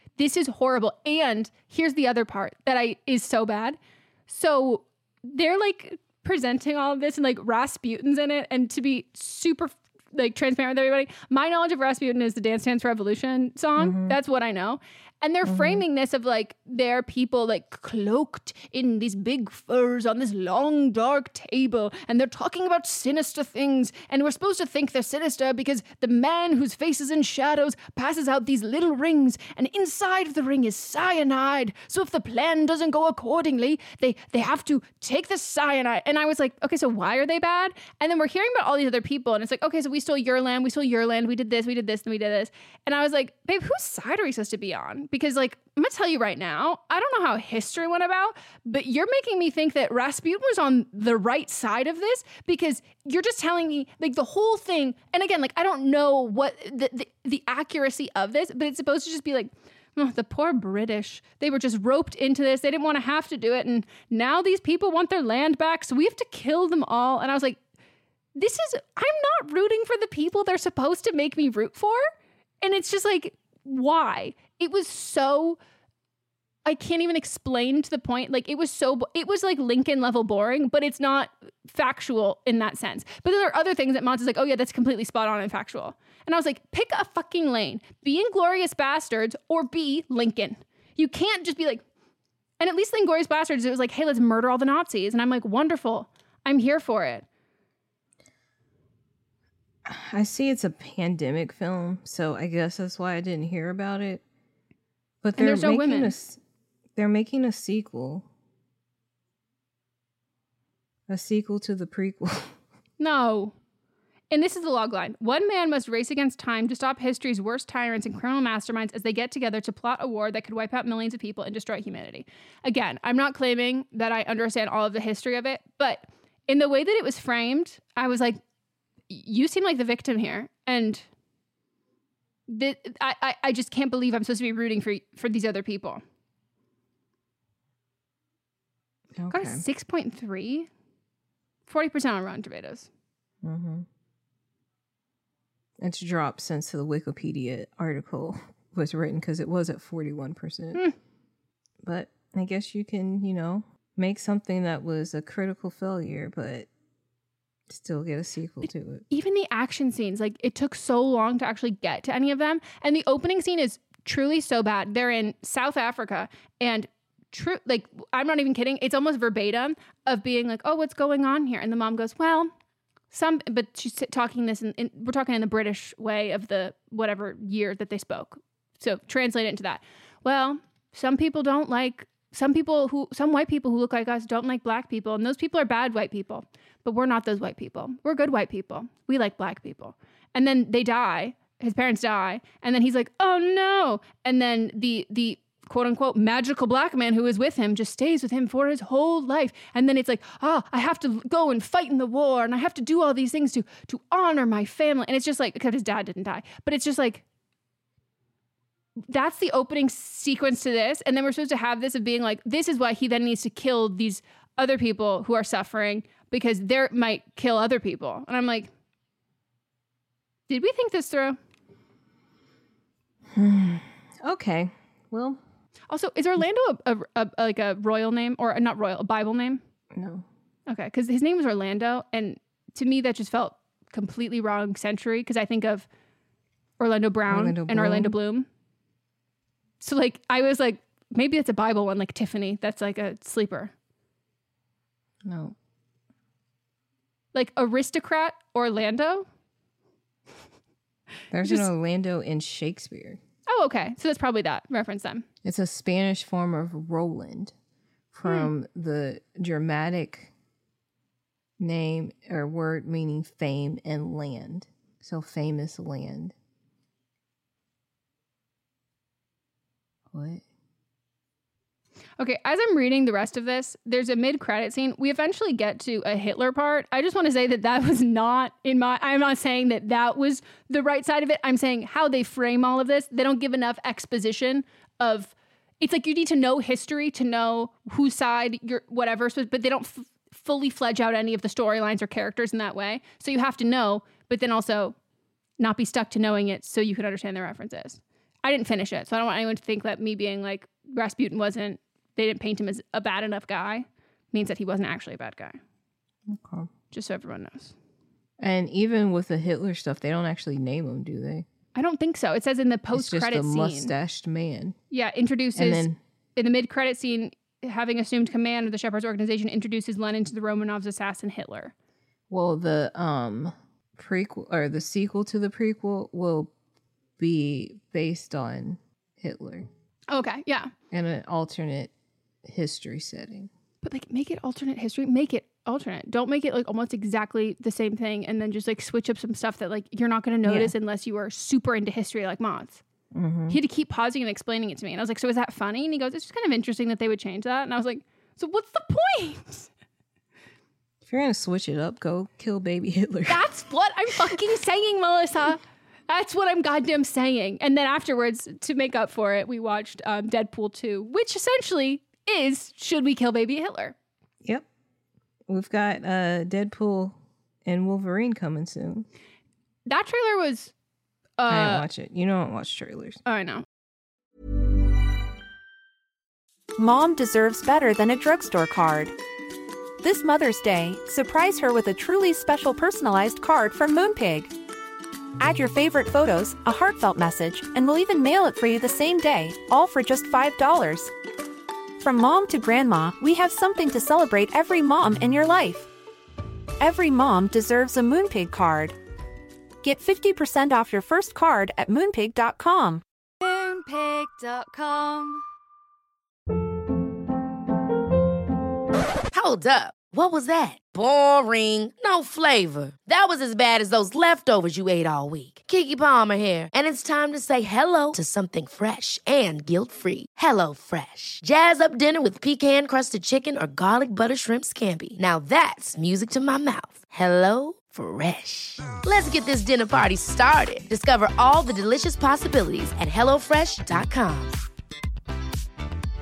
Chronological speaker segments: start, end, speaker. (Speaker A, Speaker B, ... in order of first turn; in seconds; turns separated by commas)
Speaker A: 0.2-67.6, Speaker B: 13.8-14.2, Speaker B: 15.4-15.8, Speaker A: 68.3-72.0, Speaker A: 72.6-75.6, Speaker A: 76.6-91.8, Speaker A: 92.6-97.2, Speaker B: 99.8-104.2, Speaker B: 105.2-106.4, Speaker A: 105.4-106.1, Speaker B: 107.0-108.3, Speaker B: 111.1-112.5, Speaker A: 113.0-113.5, Speaker A: 114.3-128.4, Speaker A: 129.1-131.0, Speaker A: 132.5-136.0, Speaker B: 139.2-139.6, Speaker A: 139.3-140.7, Speaker A: 141.7-142.9, Speaker B: 143.4-143.8, Speaker B: 145.8-150.8, Speaker B: 151.8-156.7, Speaker B: 157.7-159.0, Speaker A: 159.1-172.5, Speaker A: 173.1-207.2, Speaker A: 209.1-218.7, Speaker A: 220.5-221.4, Speaker B: 223.3-225.4, Speaker A: 225.9-229.6, Speaker B: 229.9-230.2, Speaker A: 230.7-235.9, Speaker A: 236.8-238.5, Speaker B: 237.3-238.2, Speaker A: 239.8-243.7, Speaker B: 245.2-245.5, Speaker A: 247.3-249.2, Speaker B: 251.3-253.2, Speaker A: 251.4-251.7, Speaker A: 253.5-255.2, Speaker B: 255.4-257.5, Speaker B: 258.1-260.3, Speaker B: 261.6-266.3, Speaker B: 270.1-270.4, Speaker A: 272.2-294.9, Speaker A: 295.6-305.6, Speaker B: 306.3-306.7, Speaker A: 306.9-307.7, Speaker B: 308.4-311.4, Speaker A: 311.7-313.9, Speaker B: 312.9-314.8, Speaker A: 314.9-321.7, Speaker B: 315.5-316.0, Speaker B: 322.3-326.5, Speaker B: 327.2-329.7, Speaker A: 330.1-330.7, Speaker B: 330.9-331.9, Speaker B: 332.4-333.5, Speaker A: 333.8-342.8, Speaker B: 340.4-340.7, Speaker B: 343.1-343.6, Speaker A: 343.5-349.7, Speaker B: 351.0-353.5, Speaker A: 353.3-363.9, Speaker B: 365.5-369.1, Speaker A: 369.9-370.7, Speaker A: 371.4-371.9, Speaker B: 371.5-373.2, Speaker A: 373.2-373.6, Speaker C: 376.8-379.1, Speaker C: 380.0-384.5, Speaker C: 385.4-391.1, Speaker C: 392.0-395.9, Speaker C: 396.8-398.9, Speaker C: 399.8-405.4, Speaker D: 409.3-434.6